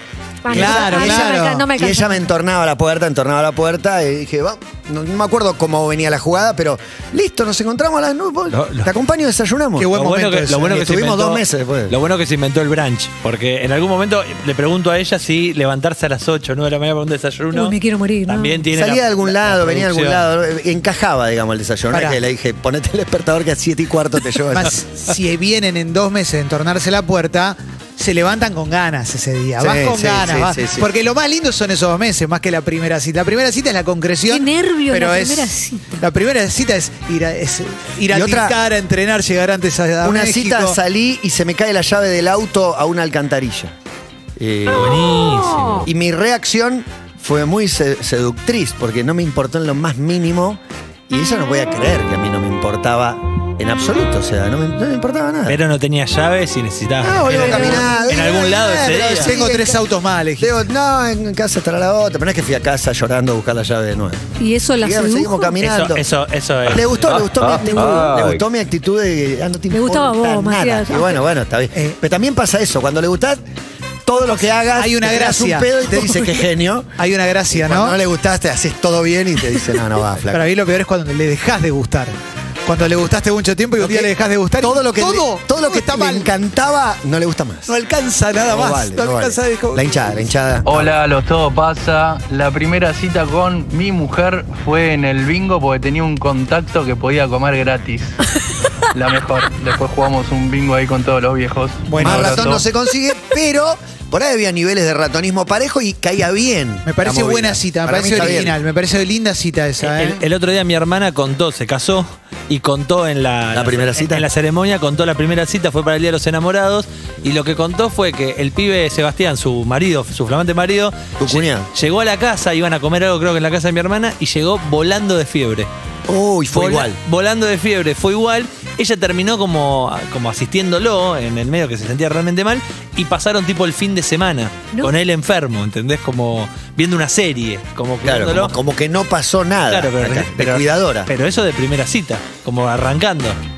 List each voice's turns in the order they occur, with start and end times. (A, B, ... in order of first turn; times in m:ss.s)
0:00.4-0:02.3 A
0:00.5-0:10.0 B
0:00.5-0:01.7 C
0:08.5-0:08.9 D
0:09.8-0:10.8 C
0:09.9-0:17.8 D
0:10.6-0:12.0 B
0:17.5-0:18.6 A
0:18.3-0:20.2 D
0:18.7-0:24.8 B
0:21.9-0:22.2 C
0:24.5-0:40.8 C
0:29.6-0:30.9 B
0:34.3-0:36.1 A
0:38.1-0:38.6 B
0:40.0-0:43.7 B
0:44.4-0:45.2 B
0:44.7-0:45.9 D
0:45.8-0:55.6 B
0:55.5-0:59.3 D
0:57.0-0:59.8 B
0:57.3-1:00.5 C
0:57.3-0:57.9 A
1:00.4-1:04.3 B
1:04.4-1:05.6 A
1:04.8-1:06.0 B
1:05.6-1:08.3 D
1:06.6-1:13.4 B
1:07.5-1:08.1 A
1:09.7-1:11.2 A
1:14.0-1:16.9 B
1:14.8-1:15.7 C
1:17.0-1:18.0 C
1:17.5-1:20.5 B
1:20.3-1:26.3 C
1:23.8-1:27.7 B
1:27.7-1:30.2 C
1:28.5-1:30.9 B
1:30.6-1:38.2 E
1:38.9-1:42.5 E
1:41.9-1:42.6 C
1:42.0-1:48.6 B
1:46.8-1:50.2 C
1:49.8-2:05.7 D
1:53.5-1:54.3 B
2:01.2-2:01.7 B
2:06.1-2:07.0 B
2:06.5-2:18.5 D
2:18.0-2:21.1 B
2:19.7-2:23.4 D